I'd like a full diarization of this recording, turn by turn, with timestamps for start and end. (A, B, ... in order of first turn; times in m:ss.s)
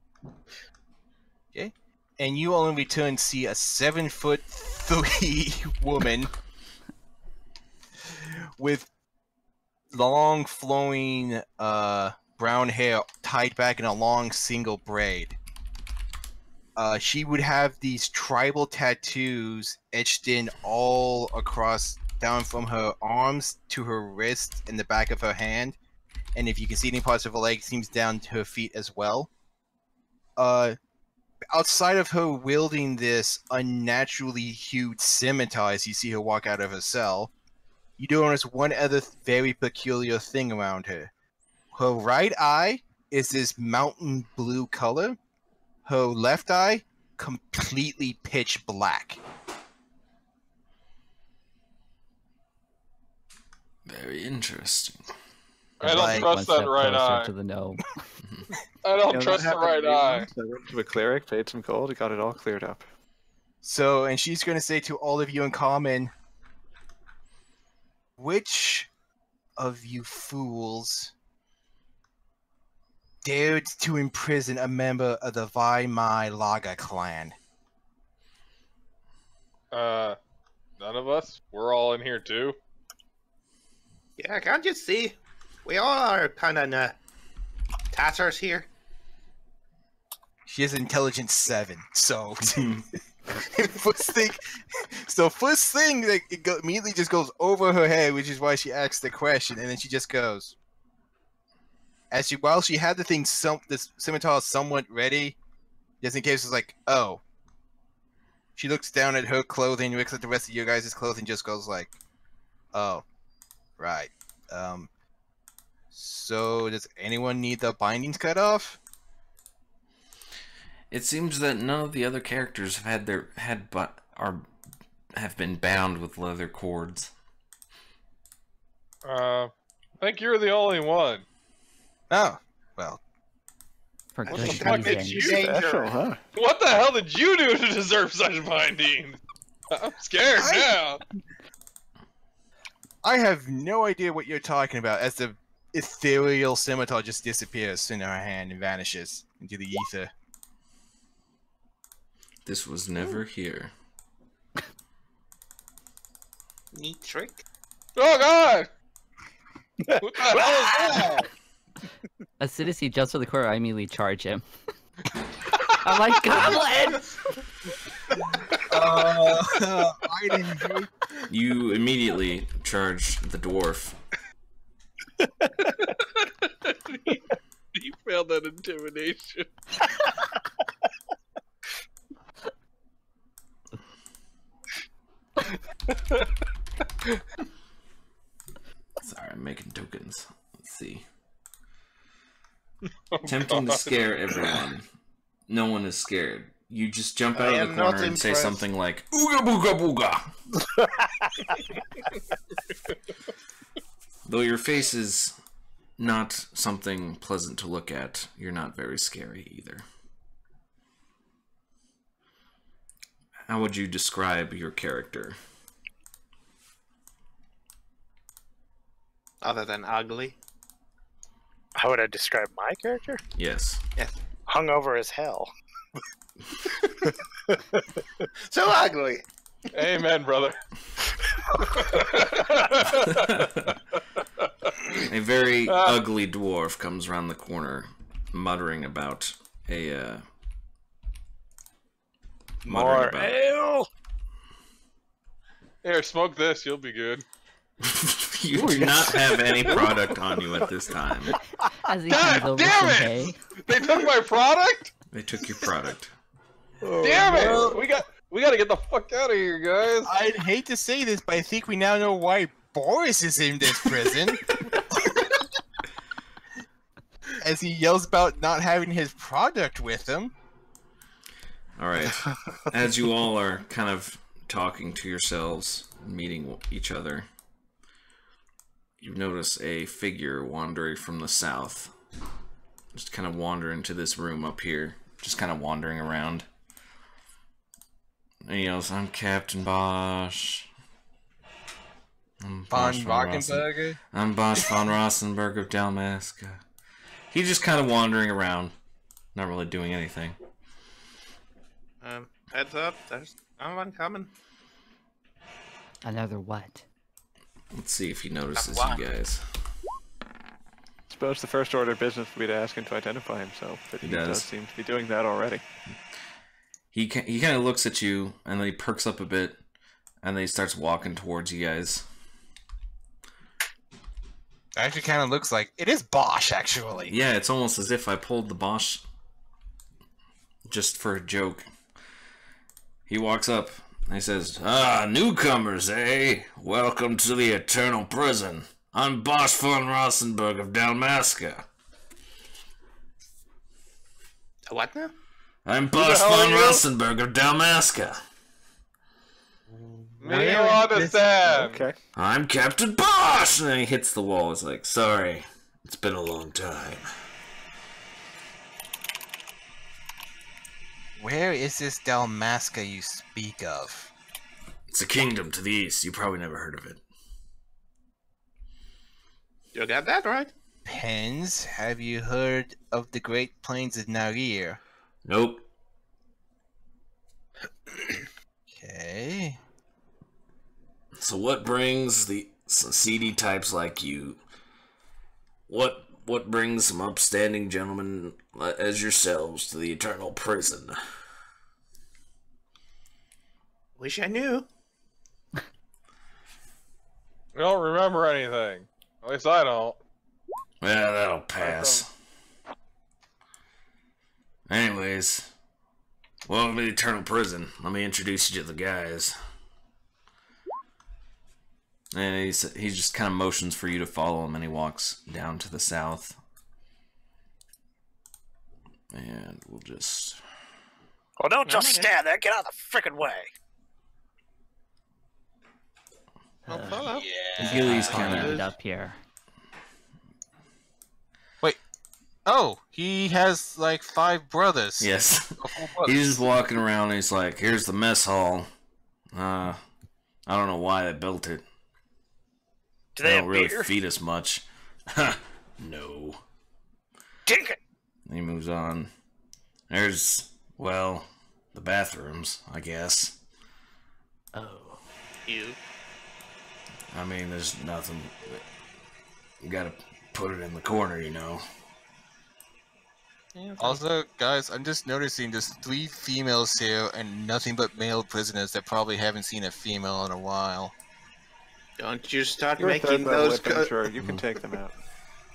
0:01.5-0:06.3 A
0:08.0-0:08.9 A
0:09.9-0:15.4 A
0:16.8-0:25.8 A
0:26.4-0:29.3 A
0:30.4-0:30.8 A
0:31.5-0:37.3 A
0:38.0-0:41.1 A
0:41.7-0:45.2 A
0:45.9-0:49.2 A
0:53.9-0:55.1 B
0:55.8-0:57.3 C
0:55.8-0:58.0 D
0:55.9-0:56.3 A
0:58.8-1:00.3 C
0:59.1-1:02.9 E
1:03.6-1:06.1 A
1:08.2-1:08.9 A
1:09.6-1:11.1 A
1:13.2-1:17.4 A
1:19.7-1:20.2 C
1:20.8-1:22.6 C
1:24.2-1:27.0 F
1:27.9-1:28.7 F
1:30.5-1:32.7 A
1:32.6-1:32.8 B
1:33.3-1:40.6 A
1:42.1-1:45.4 A
1:46.0-1:47.2 A
1:48.6-1:52.0 A
1:52.7-1:53.0 A
1:53.8-1:54.9 A
1:55.9-1:58.8 A
2:00.9-2:04.5 B
2:05.2-2:07.1 B
2:09.0-2:11.2 C
2:12.1-2:13.0 A
2:14.2-2:15.5 D
2:14.3-2:15.8 F
2:14.3-2:16.2 E
2:14.4-2:15.8 A
2:16.4-2:19.2 C
2:19.7-2:21.0 C
2:20.4-2:20.8 A
2:23.0-2:30.1 A
2:32.5-2:33.7 B
2:36.7-2:37.4 F
2:38.0-2:38.7 C
2:39.9-2:41.3 G
2:40.0-2:41.3 C
2:42.4-2:44.5 D
2:45.8-2:47.1 D
2:48.7-2:50.9 A
2:51.3-2:54.0 B
2:55.6-2:57.2 C
2:57.8-2:59.5 C
3:05.9-3:06.3 C
3:09.0-3:11.0 B
3:13.1-3:13.9 C
3:13.2-3:14.9 B
3:15.5-3:20.3 B
3:17.4-3:18.6 F
3:20.8-3:21.3 G
3:24.3-3:25.3 B
3:26.0-3:29.8 B
3:33.5-3:35.4 B
3:39.4-3:40.4 F
3:41.8-3:43.2 G
3:43.4-3:43.8 B
3:44.5-3:45.5 G
3:48.5-3:49.2 F
3:49.7-3:50.6 C
3:51.6-3:54.8 C
3:53.1-3:53.7 B
3:55.0-4:00.2 B
3:55.7-3:56.0 C
4:02.6-4:03.4 B
4:02.6-4:03.9 G
4:05.8-4:07.2 C
4:07.8-4:11.4 B
4:11.8-4:13.4 D
4:12.1-4:14.9 C
4:15.1-4:16.1 B
4:16.8-4:18.0 G
4:17.0-4:20.1 C
4:17.2-4:17.8 A
4:20.1-4:25.0 A
4:27.4-4:30.3 A
4:31.8-4:37.3 B
4:39.0-4:41.9 B
4:42.9-4:46.5 B
4:48.4-4:50.7 B
4:52.4-4:56.6 B
4:52.7-4:54.0 A
4:57.3-4:58.8 B
4:59.4-5:00.4 B
5:02.0-5:04.3 F
5:06.0-5:06.8 D
5:07.7-5:09.4 B
5:08.6-5:09.1 F
5:11.1-5:15.6 E
5:14.0-5:14.5 B
5:16.9-5:19.6 B
5:20.2-5:22.0 B
5:24.8-5:27.1 A
5:27.1-5:29.0 B
5:30.7-5:31.7 B
5:33.1-5:41.6 B
5:44.7-5:45.1 F
5:45.6-5:48.2 B
5:45.9-5:46.8 C
5:49.7-5:51.2 F
5:50.2-5:51.8 C
5:51.4-5:52.0 E
5:52.2-5:57.0 B
6:01.2-6:04.1 A
6:04.9-6:07.0 B
6:09.7-6:10.5 F
6:10.8-6:14.8 A
6:15.2-6:15.6 B
6:18.7-6:19.6 A
6:21.2-6:24.4 B
6:25.7-6:31.0 B
6:34.0-6:34.7 F
6:37.6-6:40.0 C
6:40.8-6:42.1 B
6:41.6-6:42.0 C
6:44.7-6:45.5 B
6:46.5-6:49.4 B
6:52.1-6:56.4 B
6:59.1-7:00.4 B
7:01.4-7:03.5 G
7:01.7-7:02.1 F
7:06.7-7:07.3 F
7:06.7-7:09.2 D
7:07.1-7:08.6 A
7:07.6-7:08.6 B
7:08.0-7:08.7 F
7:12.5-7:16.4 A
7:15.0-7:18.7 B
7:19.3-7:19.8 B
7:20.5-7:21.6 B
7:23.2-7:23.9 G
7:23.2-7:26.4 B
7:27.5-7:27.8 G
7:28.3-7:29.1 B
7:29.9-7:33.4 B
7:34.5-7:35.0 D
7:35.5-7:35.8 F
7:37.1-7:38.6 B
7:39.6-7:41.6 B
7:43.6-7:44.0 F
7:43.8-7:50.9 A
7:52.0-7:54.1 F
7:52.8-7:55.0 E